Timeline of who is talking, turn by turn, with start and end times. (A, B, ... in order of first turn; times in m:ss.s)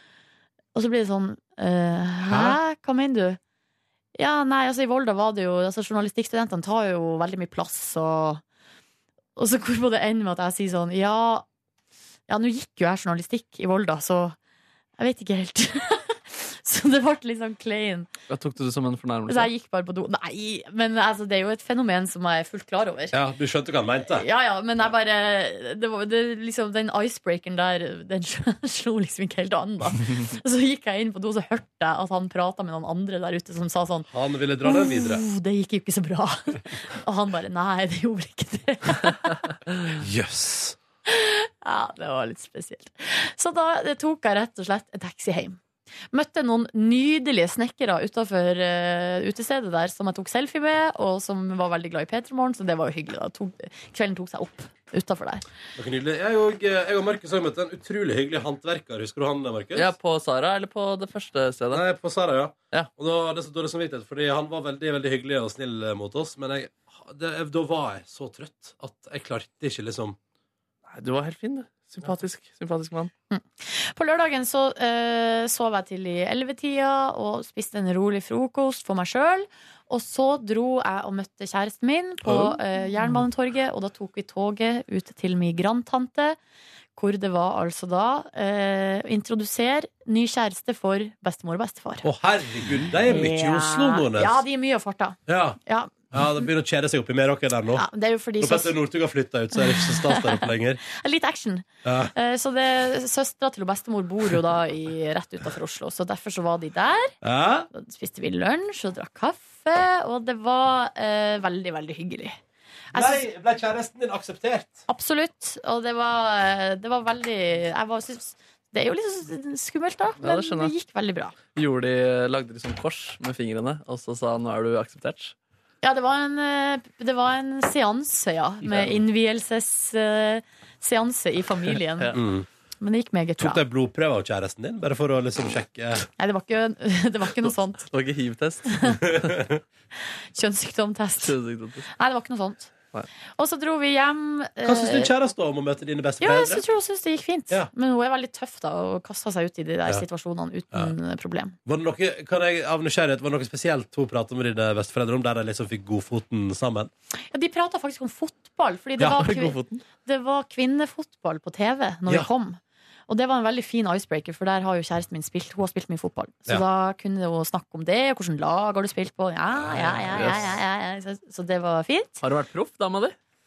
0:00.7-0:03.4 A
0:02.3-0:02.6 B
0:04.2-0:08.4 A
0:09.4-0:11.4 A
0:12.3-0:14.4 A
0:15.0-0:18.1 A
0:18.3-0:19.5 C
0:19.3-0:23.2 A
0:23.1-0:24.2 B
0:24.1-0:34.1 A
0:34.1-0:35.2 B
0:34.6-0:39.5 A
0:40.0-0:40.8 B
0:41.1-0:45.6 A
0:46.1-0:55.5 A
0:55.8-0:59.9 B
0:59.8-1:01.8 C
1:01.7-1:10.2 B
1:10.9-1:13.1 C
1:13.3-1:26.4 A
1:27.0-1:32.1 A
1:32.0-1:34.4 B
1:33.0-1:35.9 A
1:35.3-1:35.6 B
1:36.1-1:37.9 B
1:37.8-1:38.8 A
1:38.4-1:40.8 B
1:39.6-1:47.2 A
1:41.8-1:42.1 B
1:47.2-1:47.7 B
1:47.7-1:52.4 A
1:52.9-1:53.2 A
1:52.9-1:54.8 B
1:54.9-2:01.4 A
2:00.2-2:00.7 C
2:01.6-2:05.4 C
2:05.8-2:12.2 A
2:12.1-2:12.5 B
2:12.8-2:13.6 A
2:13.4-2:16.0 B
2:16.2-2:17.9 A
2:17.9-2:19.3 C
2:19.1-2:19.6 B
2:20.3-2:21.4 A
2:21.2-2:21.9 C
2:21.9-2:22.7 A
2:23.4-2:25.1 A
2:24.6-2:26.6 B
2:26.2-2:31.6 A
2:31.7-2:36.9 B
2:37.3-2:52.2 A
2:39.0-2:39.8 C
2:49.5-2:50.5 B
2:50.1-2:50.5 C
2:52.2-2:53.2 C